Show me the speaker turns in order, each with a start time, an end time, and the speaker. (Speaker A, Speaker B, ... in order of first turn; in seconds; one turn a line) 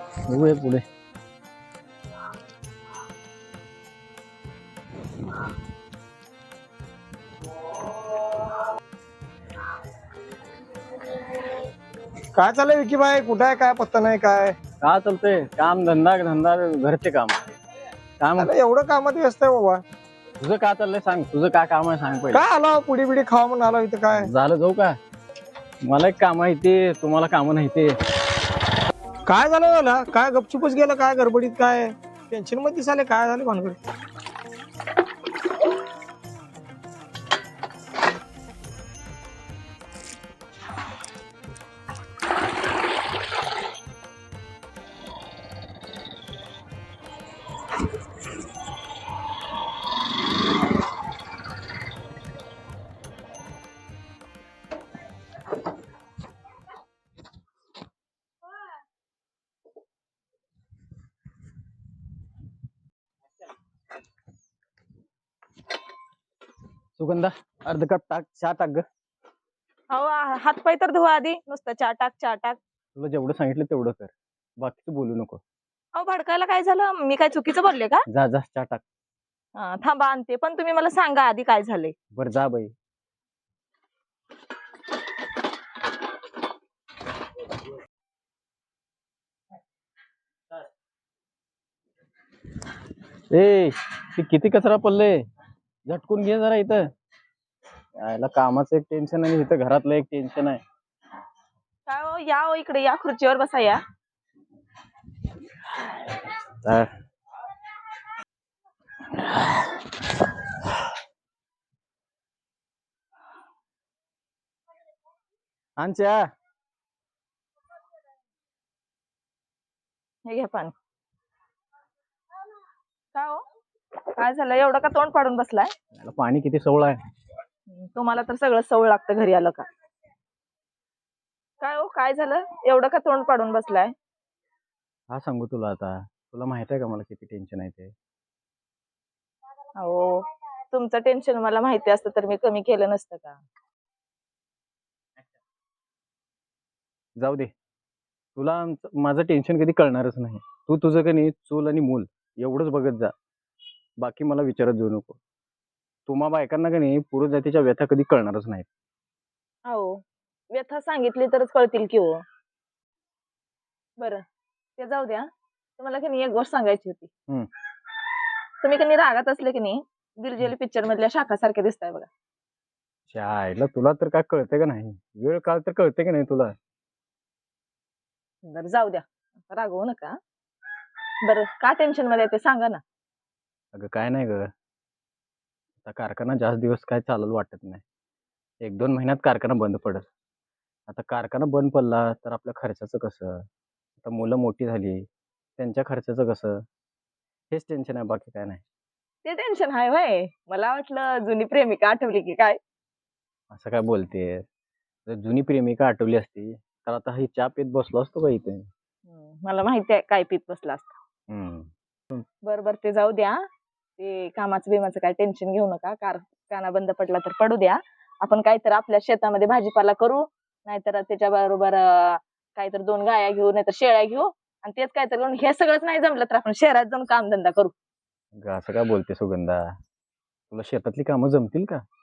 Speaker A: 0.2-0.8
Speaker B: 12.3-14.6
Speaker A: 14.8-17.4
Speaker A: 18.2-18.5
Speaker B: 18.4-19.8
Speaker A: 20.4-22.4
Speaker B: 22.3-24.3
Speaker A: 24.1-25.0
Speaker A: 25.9-27.9
Speaker B: 29.3-33.8
Speaker A: 67.0-68.8
Speaker C: 69.9-72.6
Speaker A: 73.0-75.4
Speaker C: 76.0-78.0
Speaker A: 78.1-78.8
Speaker C: 79.6-81.9
Speaker A: 82.2-82.7
Speaker A: 93.3-95.2
Speaker A: 95.9-96.9
Speaker A: 98.0-100.6
Speaker C: 101.9-103.8
Speaker A: 106.6-106.9
Speaker A: 115.8-116.3
Speaker C: 120.3-120.7
Speaker C: 123.1-123.4
Speaker C: 124.2-125.7
Speaker A: 125.9-127.0
Speaker C: 127.7-129.7
Speaker C: 131.6-133.9
Speaker A: 135.1-137.9
Speaker C: 139.8-143.4
Speaker A: 147.2-147.5
Speaker A: 148.4-153.1
Speaker A: 154.0-155.2
Speaker A: 156.1-158.7
Speaker C: 159.7-162.2
Speaker C: 164.8-165.3
Speaker C: 165.8-167.1
Speaker C: 168.6-172.1
Speaker A: 173.1-176.6
Speaker C: 178.4-180.2
Speaker C: 181.2-182.8
Speaker A: 183.7-184.5
Speaker A: 185.8-187.8
Speaker A: 188.6-190.1
Speaker A: 190.9-193.4
Speaker A: 194.0-195.1
Speaker A: 195.6-196.6
Speaker A: 197.5-198.6
Speaker C: 199.2-202.6
Speaker A: 203.5-204.4
Speaker A: 205.1-208.7
Speaker C: 209.1-211.0
Speaker A: 211.3-211.7
Speaker C: 212.4-213.4
Speaker C: 214.0-227.7
Speaker A: 228.3-229.7
Speaker A: 230.5-231.8